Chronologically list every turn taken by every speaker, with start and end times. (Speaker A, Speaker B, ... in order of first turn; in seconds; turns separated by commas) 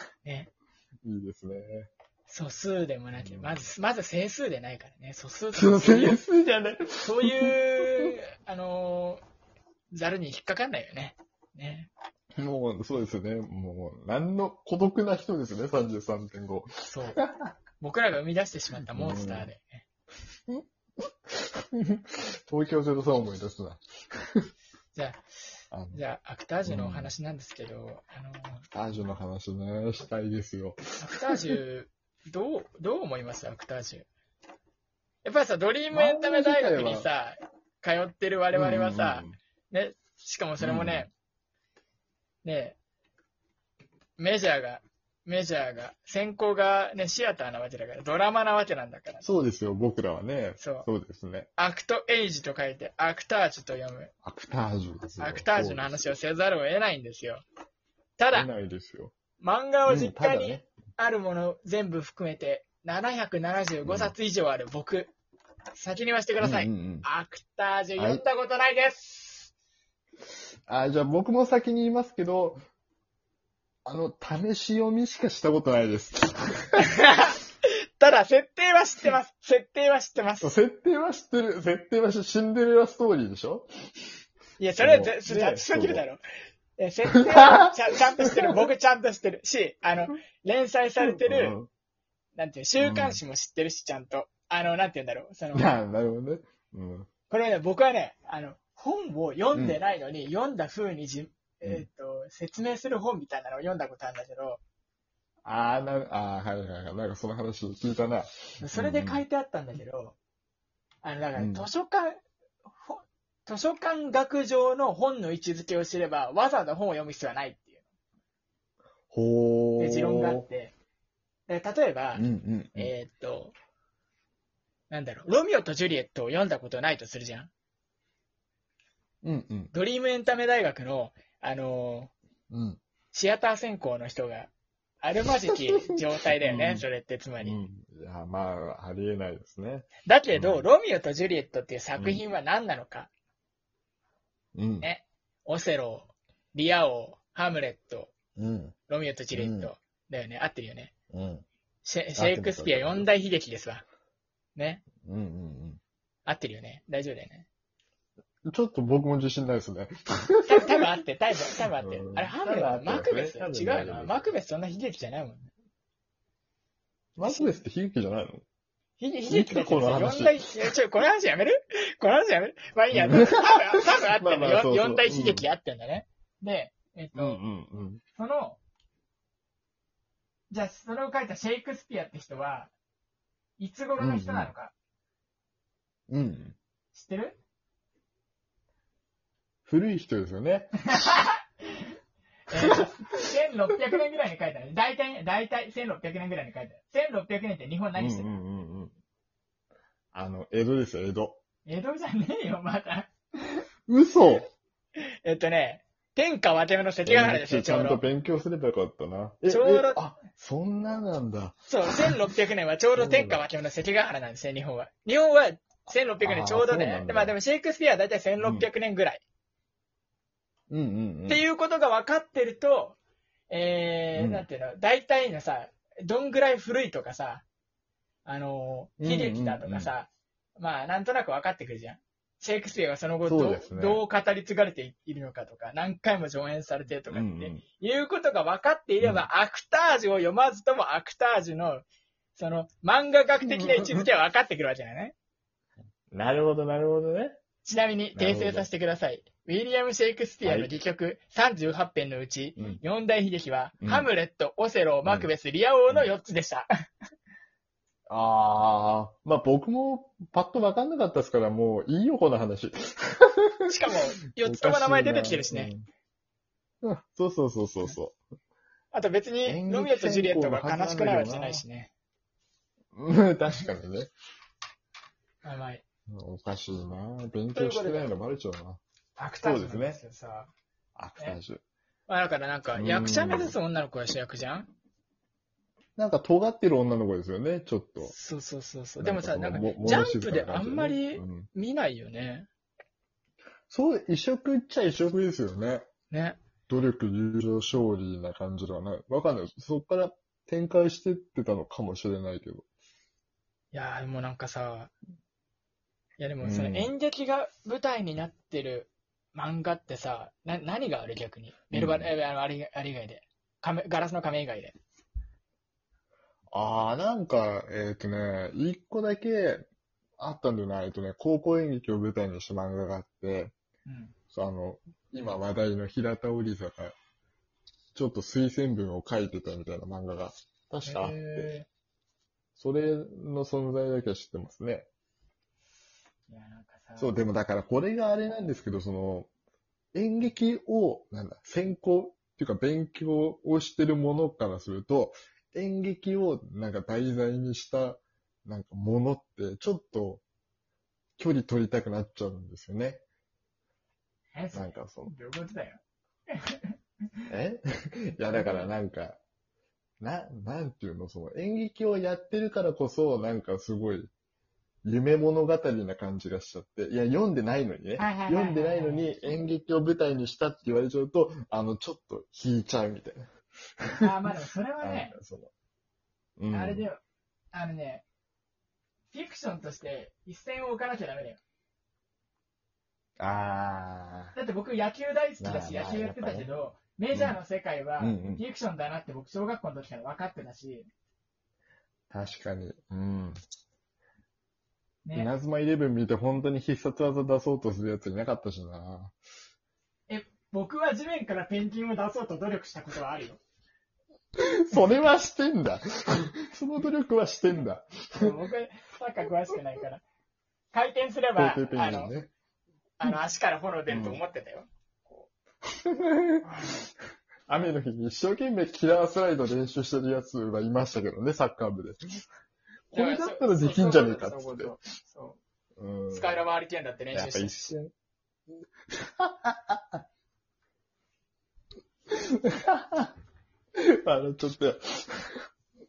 Speaker A: 0.2-0.5, Speaker B: 1.0-1.9, Speaker A: 2.3-6.2, Speaker B: 3.1-3.7, Speaker B: 5.5-8.1, Speaker A: 7.0-9.2, Speaker A: 9.9-11.9, Speaker B: 12.4-17.5, Speaker A: 16.9-17.2, Speaker A: 17.8-19.8, Speaker B: 18.9-19.5, Speaker B: 21.3-24.5, Speaker A: 24.9-25.2, Speaker B: 25.7-26.0, Speaker A: 25.9-28.6, Speaker B: 26.6-27.1, Speaker B: 28.7-31.0, Speaker A: 31.0-34.1, Speaker A: 35.2-41.1, Speaker B: 35.9-37.1, Speaker B: 38.5-39.4, Speaker B: 40.6-41.1, Speaker A: 42.4-42.8, Speaker A: 44.2-49.2, Speaker B: 49.2-51.5, Speaker A: 50.6-50.9, Speaker A: 51.6-54.1, Speaker B: 54.2-56.1, Speaker A: 55.2-57.4, Speaker A: 58.2-58.5, Speaker B: 58.3-59.1, Speaker A: 59.4-65.1, Speaker B: 59.9-60.7, Speaker B: 63.8-64.1, Speaker A: 65.7-69.5, Speaker B: 66.4-67.1, Speaker B: 68.0-68.2, Speaker B: 70.7-72.6, Speaker B: 73.8-76.8, Speaker A: 76.8-77.4, Speaker A: 78.0-80.5, Speaker B: 80.4-83.7, Speaker A: 84.6-86.2, Speaker B: 84.8-86.0, Speaker A: 86.8-91.5, Speaker B: 87.1-88.7, Speaker B: 91.0-91.7, Speaker A: 92.3-95.7, Speaker B: 92.8-93.2, Speaker B: 95.5-97.1, Speaker A: 97.3-104.6, Speaker B: 99.5-99.8, Speaker B: 105.4-109.2, Speaker A: 108.6-110.2, Speaker A: 111.0-117.8, Speaker B: 111.3-111.7, Speaker B: 119.1-120.5, Speaker A: 119.8-120.7, Speaker A: 121.5-123.5, Speaker B: 122.1-122.9, Speaker A: 124.9-127.5, Speaker B: 129.2-129.7, Speaker A: 129.7-132.1, Speaker B: 132.5-132.8, Speaker A: 133.1-137.6, Speaker B: 136.4-136.8, Speaker B: 137.4-140.7, Speaker A: 140.1-143.1, Speaker B: 142.0-142.2, Speaker B: 144.5-144.9, Speaker A: 144.8-148.1, Speaker B: 148.4-148.8, Speaker A: 148.9-150.9, Speaker B: 149.3-149.7, Speaker B: 151.1-151.4, Speaker A: 151.8-153.8, Speaker B: 152.1-153.1, Speaker A: 154.5-154.8, Speaker B: 155.0-155.8, Speaker A: 156.2-157.5, Speaker B: 158.4-160.9, Speaker A: 160.4-165.5, Speaker B: 161.8-164.2, Speaker B: 167.2-168.4, Speaker A: 167.2-167.6, Speaker A: 169.0-177.4, Speaker B: 169.3-170.5, Speaker B: 172.9-175.5, Speaker B: 177.1-178.0, Speaker A: 178.1-178.6, Speaker A: 180.5-182.7, Speaker A: 183.6-184.7, Speaker B: 184.0-184.5, Speaker B: 186.1-186.6, Speaker A: 186.9-187.4, Speaker B: 189.7-190.9, Speaker A: 190.9-191.9, Speaker A: 192.5-198.4, Speaker B: 192.7-193.2, Speaker B: 198.0-198.9, Speaker B: 200.1-201.4, Speaker A: 201.7-203.6, Speaker B: 203.9-204.5, Speaker A: 205.2-208.0, Speaker B: 207.0-212.2, Speaker A: 209.5-210.0, Speaker A: 211.7-219.2, Speaker B: 212.9-213.4, Speaker B: 216.2-217.3, Speaker B: 218.4-218.7, Speaker B: 220.7-221.4, Speaker A: 221.3-223.0, Speaker A: 223.5-227.4, Speaker B: 224.2-224.4, Speaker A: 228.2-245.1, Speaker B: 229.0-229.9, Speaker B: 233.2-234.0, Speaker B: 237.1-237.6, Speaker B: 239.0-239.2, Speaker B: 243.4-244.1, Speaker B: 246.1-247.4, Speaker A: 247.6-256.7, Speaker B: 248.1-248.7, Speaker B: 250.4-250.8, Speaker B: 252.6-252.8, Speaker B: 253.8-254.1, Speaker B: 255.0-255.3, Speaker B: 258.1-263.7, Speaker A: 263.7-265.7, Speaker B: 264.3-265.9, Speaker B: 266.8-268.2, Speaker A: 268.9-271.9, Speaker B: 269.4-271.6, Speaker B: 272.9-274.1, Speaker A: 275.4-275.8, Speaker B: 276.1-278.8, Speaker A: 277.5-278.1, Speaker A: 279.2-280.5, Speaker B: 279.4-280.0, Speaker B: 280.9-281.6, Speaker A: 282.1-284.7, Speaker B: 282.8-283.6, Speaker B: 286.0-288.1, Speaker A: 288.0-292.5, Speaker B: 289.0-291.5, Speaker B: 293.7-295.9, Speaker A: 296.1-296.4, Speaker B: 296.7-302.6, Speaker A: 303.7-304.9, Speaker A: 306.2-314.8, Speaker B: 306.4-306.9, Speaker B: 311.7-312.1, Speaker B: 316.5-319.6, Speaker B: 320.2-323.5, Speaker A: 323.9-324.1, Speaker B: 324.3-326.9, Speaker B: 327.9-331.5, Speaker A: 330.8-331.7, Speaker B: 332.6-334.9, Speaker A: 336.3-337.1, Speaker B: 337.0-339.3, Speaker B: 339.9-350.2, Speaker B: 351.2-353.0, Speaker A: 354.3-355.8, Speaker B: 354.5-355.1, Speaker A: 356.3-356.7, Speaker B: 357.3-359.2, Speaker A: 358.3-358.7, Speaker B: 360.0-364.1, Speaker B: 364.8-373.3, Speaker A: 368.0-369.1, Speaker B: 373.8-375.5, Speaker A: 374.0-375.1, Speaker B: 376.4-376.9, Speaker A: 376.5-377.0, Speaker A: 377.5-378.0, Speaker A: 379.1-381.4, Speaker B: 383.2-384.4, Speaker A: 384.3-390.9, Speaker B: 385.4-386.5, Speaker B: 387.1-387.4, Speaker B: 388.0-388.4, Speaker B: 392.1-393.4, Speaker A: 395.0-395.3, Speaker B: 395.1-399.1, Speaker A: 400.1-403.4, Speaker B: 404.4-408.4, Speaker A: 408.2-410.0, Speaker A: 410.7-412.1, Speaker B: 411.4-412.3, Speaker A: 413.0-415.3, Speaker B: 413.9-414.2, Speaker B: 415.8-416.8, Speaker A: 416.4-416.8, Speaker B: 417.5-422.2, Speaker A: 422.9-425.4, Speaker B: 422.9-424.8, Speaker B: 425.8-426.4, Speaker A: 426.1-427.7, Speaker B: 427.1-427.9, Speaker B: 428.9-430.0, Speaker B: 432.1-433.1, Speaker B: 433.7-435.4